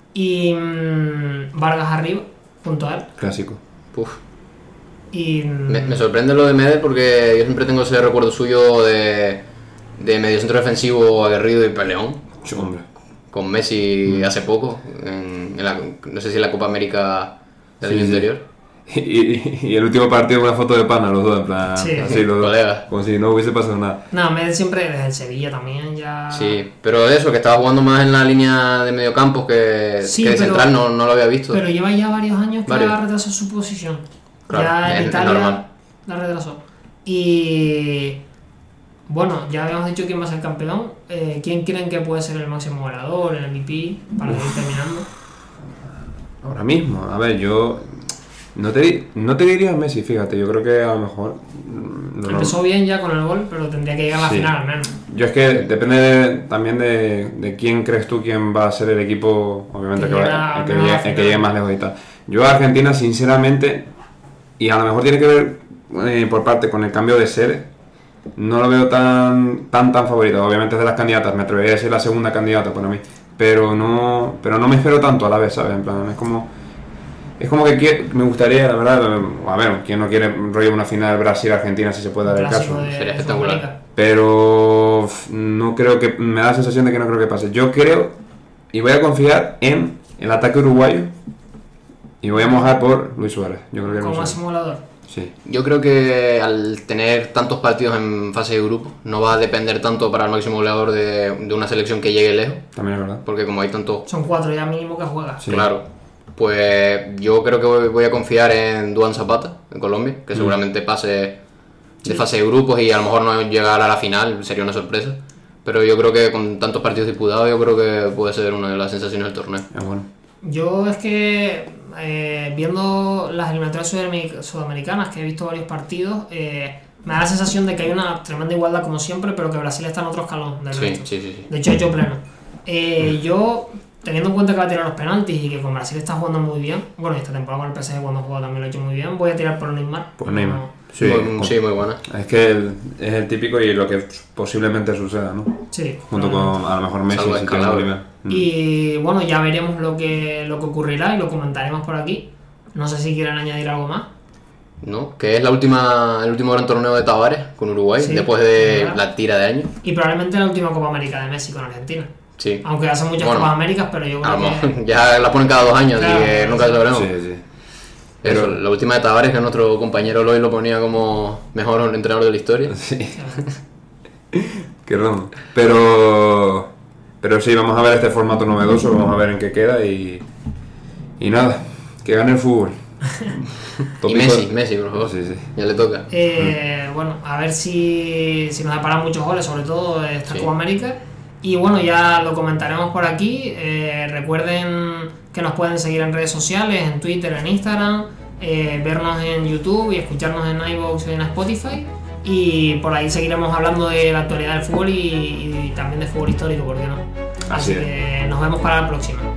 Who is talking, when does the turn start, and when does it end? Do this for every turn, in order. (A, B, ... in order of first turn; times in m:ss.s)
0:00.1-0:03.1 A
0:03.2-0:03.6 B
0:05.1-0:06.0 A
0:05.7-0:09.4 C
0:10.0-0:12.2 C
0:12.4-0:12.8 B
0:13.3-0:18.4 C
0:17.8-0:18.3 B
0:18.9-0:24.0 B
0:21.8-0:22.2 A
0:22.1-0:22.9 C
0:24.1-0:26.6 A
0:26.3-0:31.6 C
0:30.0-0:30.7 A
0:31.5-0:38.2 A
0:32.7-0:33.0 C
0:34.5-0:35.6 C
0:39.1-0:45.1 A
0:46.4-0:52.6 B
0:52.2-0:55.0 A
0:54.1-1:03.9 B
1:00.0-1:01.5 A
1:04.6-1:07.7 B
1:08.4-1:16.5 B
1:17.4-1:22.9 B
1:22.2-1:23.8 A
1:22.9-1:23.6 C
1:24.0-1:28.2 B
1:28.7-1:31.1 B
1:32.2-1:34.4 B
1:33.8-1:34.8 A
1:35.4-1:42.7 C
1:42.8-1:43.2 B
1:43.2-1:44.1 C
1:44.1-1:45.5 A
1:45.5-1:51.4 C
1:52.0-1:59.7 C
1:59.7-2:00.1 B
2:00.4-2:20.7 A
2:10.7-2:11.5 C
2:20.2-2:28.5 B
2:21.0-2:22.0 C
2:25.7-2:26.6 A
2:27.1-2:27.9 C
2:28.3-2:34.1 A
2:34.8-2:39.7 C
2:38.0-2:39.0 A
2:39.8-2:42.1 A
2:42.4-2:42.6 C
2:42.6-2:44.7 A
2:43.2-2:43.5 C
2:44.2-2:47.1 C
2:46.0-2:46.8 A
2:46.9-2:47.4 B
2:48.2-2:52.8 C
2:48.2-2:48.6 B
2:52.8-2:53.2 B
2:53.1-2:53.5 A
2:54.3-2:56.7 B
2:57.2-3:00.2 B
3:01.2-3:05.5 B
3:03.8-3:06.1 C
3:06.1-3:29.3 A
3:27.5-3:27.9 B